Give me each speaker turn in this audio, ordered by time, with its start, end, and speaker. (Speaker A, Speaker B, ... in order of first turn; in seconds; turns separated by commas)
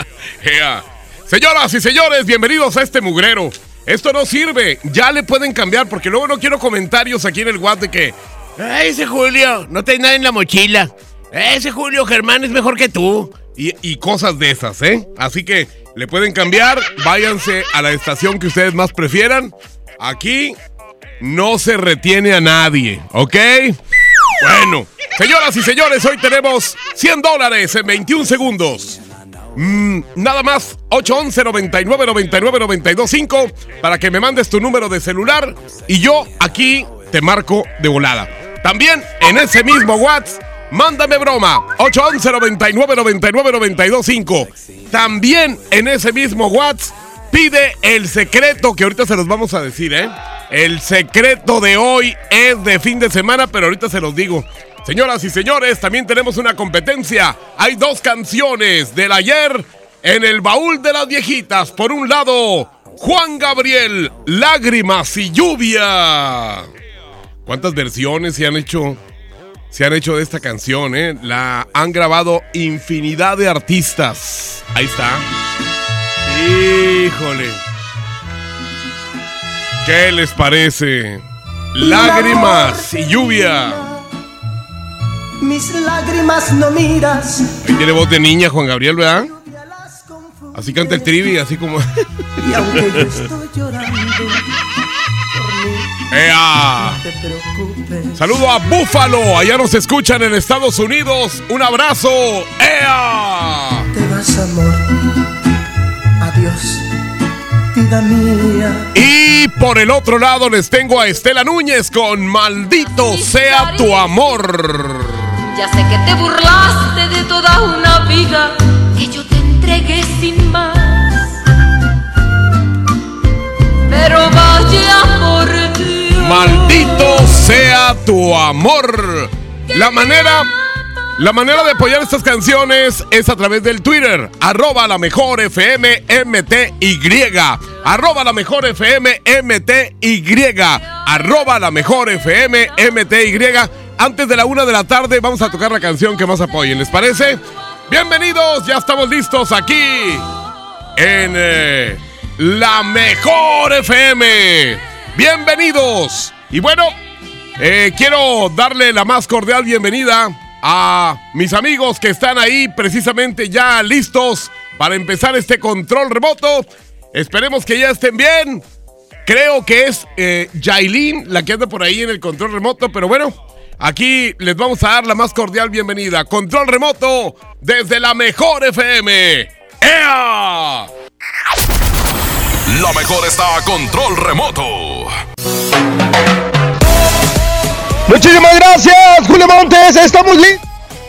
Speaker A: 0.4-20.6, Speaker A: 21.2-23.8, Speaker A: 24.4-29.0, Speaker A: 29.6-66.7, Speaker A: 67.5-69.0, Speaker A: 69.7-75.2, Speaker A: 76.2-77.6, Speaker A: 79.8-81.2, Speaker A: 81.7-83.8, Speaker B: 81.8-84.1, Speaker B: 85.4-87.5, Speaker A: 87.6-89.3, Speaker B: 89.1-91.2, Speaker A: 90.5-91.8, Speaker B: 92.4-94.5, Speaker B: 95.3-96.0, Speaker A: 96.1-97.0, Speaker B: 96.6-98.2, Speaker A: 98.2-103.9, Speaker B: 103.9-104.9, Speaker B: 106.2-106.9, Speaker B: 107.7-108.9, Speaker A: 108.9-115.2, Speaker C: 112.9-114.0, Speaker C: 115.5-121.3, Speaker C: 123.9-127.3, Speaker A: 126.2-130.5, Speaker A: 131.2-150.2, Speaker A: 150.9-156.9, Speaker A: 157.6-168.6, Speaker A: 169.2-180.9, Speaker D: 182.7-185.1, Speaker E: 188.1-190.6